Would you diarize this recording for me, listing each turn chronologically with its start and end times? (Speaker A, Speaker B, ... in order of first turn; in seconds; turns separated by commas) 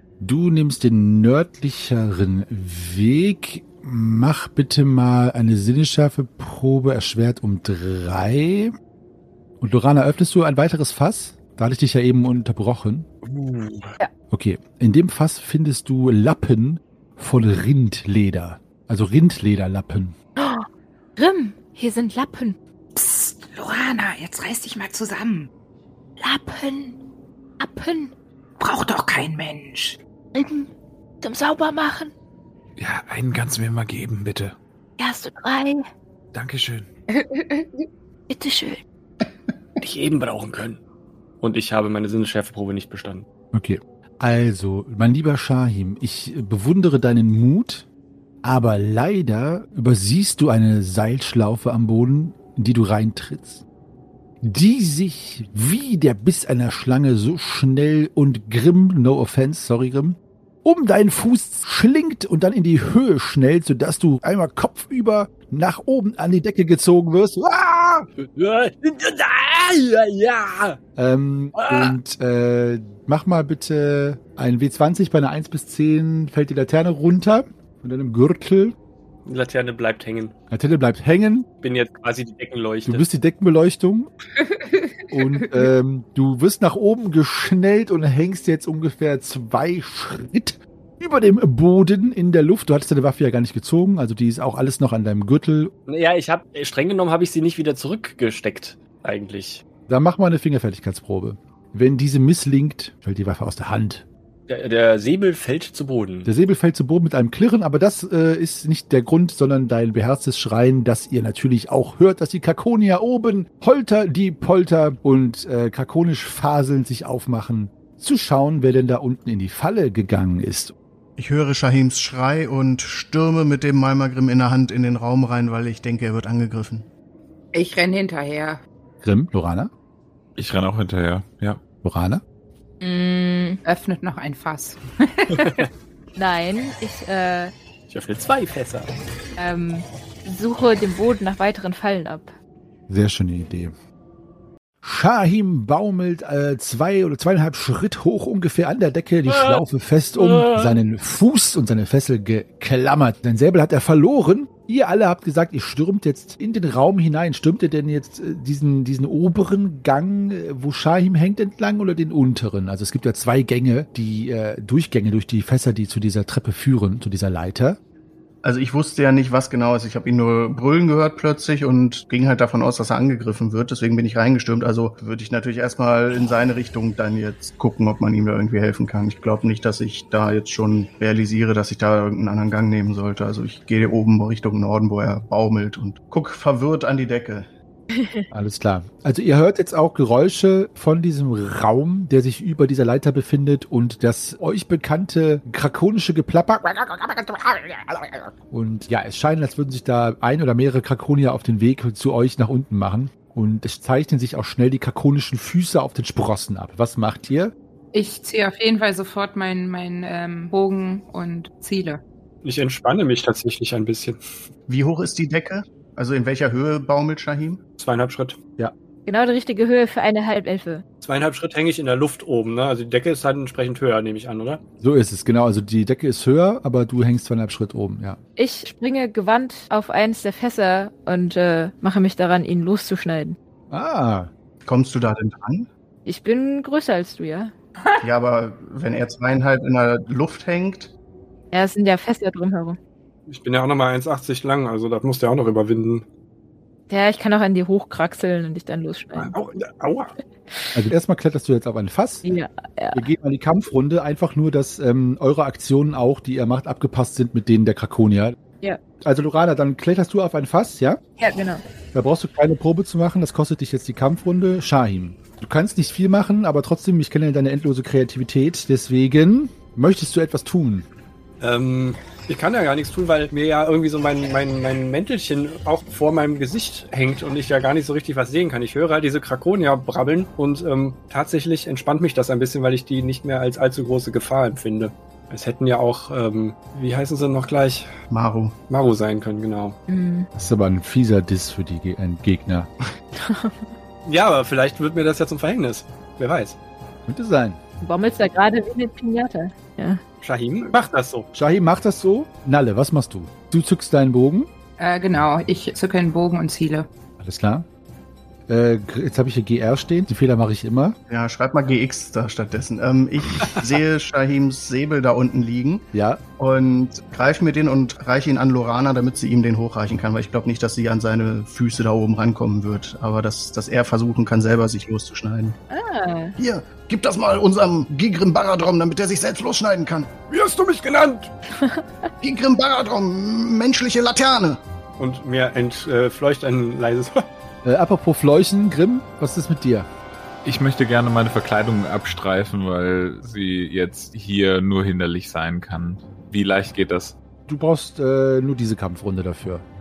Speaker A: 0.2-8.7, Speaker A: 9.6-13.1, Speaker B: 13.2-13.9, Speaker A: 14.3-20.1, Speaker C: 20.4-22.6, Speaker D: 22.9-25.5, Speaker C: 26.2-26.9, Speaker C: 27.6-28.1, Speaker D: 28.6-30.0, Speaker C: 30.3-32.1, Speaker E: 32.8-34.5, Speaker C: 35.0-35.8, Speaker E: 36.3-36.9, Speaker D: 37.2-37.8, Speaker C: 38.3-38.8, Speaker B: 39.8-40.8, Speaker B: 41.4-43.2, Speaker A: 43.5-47.9, Speaker A: 48.4-53.6, Speaker A: 54.4-68.0, Speaker B: 68.2-70.8, Speaker A: 71.0-78.8, Speaker B: 71.5-71.9, Speaker B: 79.2-80.3, Speaker A: 80.5-81.5, Speaker B: 81.6-83.0, Speaker A: 82.8-84.1, Speaker D: 84.4-85.1, Speaker A: 85.1-95.7, Speaker B: 95.9-99.6, Speaker A: 99.9-104.1, Speaker B: 104.5-106.3, Speaker A: 106.2-120.7, Speaker F: 121.2-126.9, Speaker D: 127.5-128.6, Speaker A: 129.0-129.7, Speaker E: 130.3-131.6, Speaker A: 131.8-132.2, Speaker C: 132.8-133.6, Speaker D: 133.6-135.6, Speaker B: 135.4-135.7, Speaker C: 136.2-137.5, Speaker B: 137.9-138.9, Speaker C: 139.4-142.3, Speaker A: 142.9-143.7, Speaker A: 144.8-167.8, Speaker B: 149.3-149.6, Speaker B: 150.2-150.8, Speaker F: 168.4-187.5, Speaker A: 188.3-207.5, Speaker D: 207.9-212.0, Speaker B: 212.4-214.2, Speaker F: 214.7-217.6, Speaker B: 217.8-218.4, Speaker C: 219.1-220.8, Speaker B: 221.0-224.6, Speaker A: 224.8-228.2, Speaker C: 228.4-233.4, Speaker A: 233.7-234.3, Speaker F: 234.6-235.7, Speaker C: 236.0-237.5, Speaker F: 238.0-240.9, Speaker C: 241.5-242.8, Speaker B: 243.3-246.0, Speaker C: 246.9-249.3, Speaker B: 249.2-250.1, Speaker C: 250.5-250.8, Speaker A: 250.7-252.2, Speaker C: 252.2-253.0, Speaker A: 252.9-258.4, Speaker A: 259.0-261.0, Speaker C: 261.2-261.6, Speaker A: 261.9-270.9, Speaker B: 271.4-287.9, Speaker F: 288.1-288.6, Speaker B: 288.7-289.8, Speaker C: 289.9-290.3, Speaker A: 290.3-292.7, Speaker C: 293.1-293.7, Speaker B: 294.0-296.6, Speaker A: 297.1-297.6, Speaker C: 297.8-300.0, Speaker B: 300.2-301.3, Speaker A: 301.3-304.5, Speaker D: 304.8-306.9, Speaker A: 307.2-307.7, Speaker A: 308.5-311.0, Speaker F: 311.1-315.9, Speaker A: 315.9-316.2, Speaker F: 316.4-325.6, Speaker C: 325.7-326.3, Speaker F: 326.4-330.2, Speaker B: 330.3-331.3, Speaker C: 331.6-332.1, Speaker F: 332.2-334.6, Speaker B: 335.0-337.2, Speaker A: 337.6-339.9, Speaker E: 340.4-347.2, Speaker A: 347.5-349.6